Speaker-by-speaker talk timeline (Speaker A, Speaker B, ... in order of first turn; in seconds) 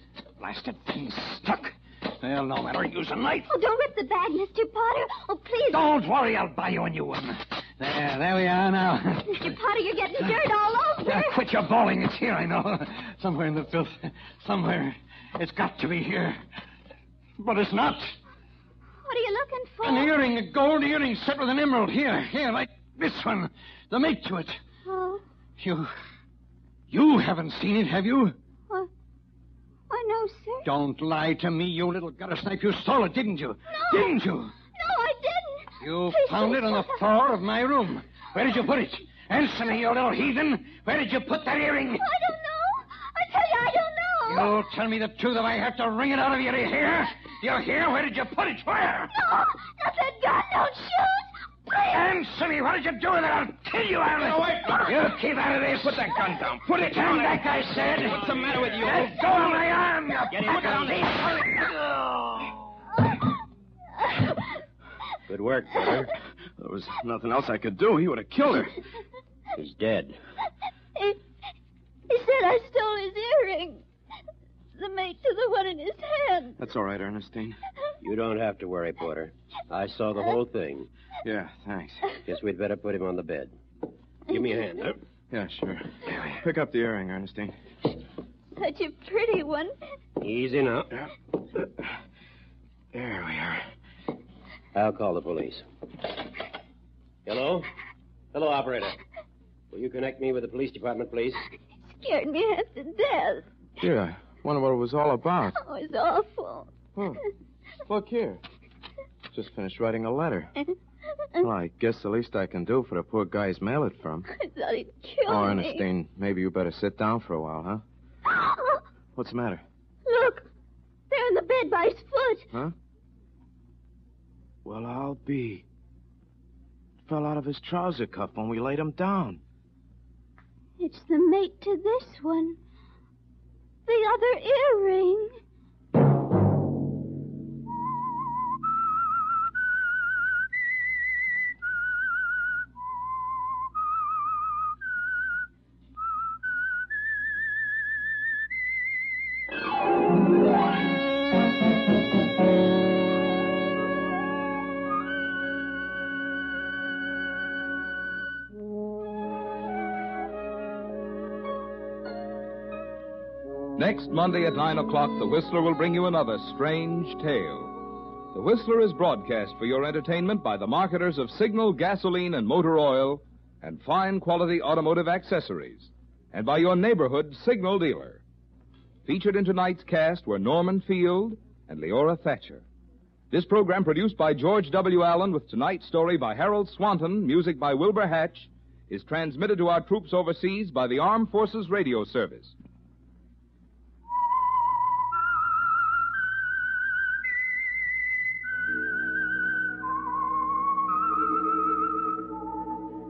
Speaker A: 0.4-3.5, 5.7-9.6, 11.0-16.4, 17.4-18.2, 19.8-24.6, 25.6-25.9, 26.9-28.4, 30.6-34.5, 35.8-42.1, 44.3-49.1, 51.8-61.7
Speaker B: 3.5-5.8, 9.3-11.4, 19.0-20.2, 24.9-25.2, 29.9-30.7, 33.7-34.2, 34.8-37.0, 42.0-44.6, 49.1-51.3, 72.1-73.8, 74.8-76.6, 88.6-89.8, 101.9-103.5, 105.5-106.8, 114.3-115.9, 118.5-118.8, 120.1-120.5, 121.1-122.5, 130.8-132.6, 133.9-135.4
Speaker C: 54.1-55.1, 55.8-59.7, 60.3-61.5, 66.6-68.7, 76.6-77.6, 81.2-82.1, 85.3-87.5, 92.9-93.7, 103.8-105.6, 106.9-107.2, 107.8-108.4, 109.3-110.5, 111.4-114.3, 115.3-117.8, 119.1-119.6, 124.7-125.7, 127.1-129.4
Speaker D: 65.3-66.1, 69.6-70.2, 78.0-80.9, 82.3-83.5, 84.3-85.0, 90.2-91.0, 94.7-95.7, 97.3-97.7, 98.3-99.0, 99.7-101.4
Speaker E: 163.8-167.8, 168.3-178.2, 179.1-182.6, 183.3-192.6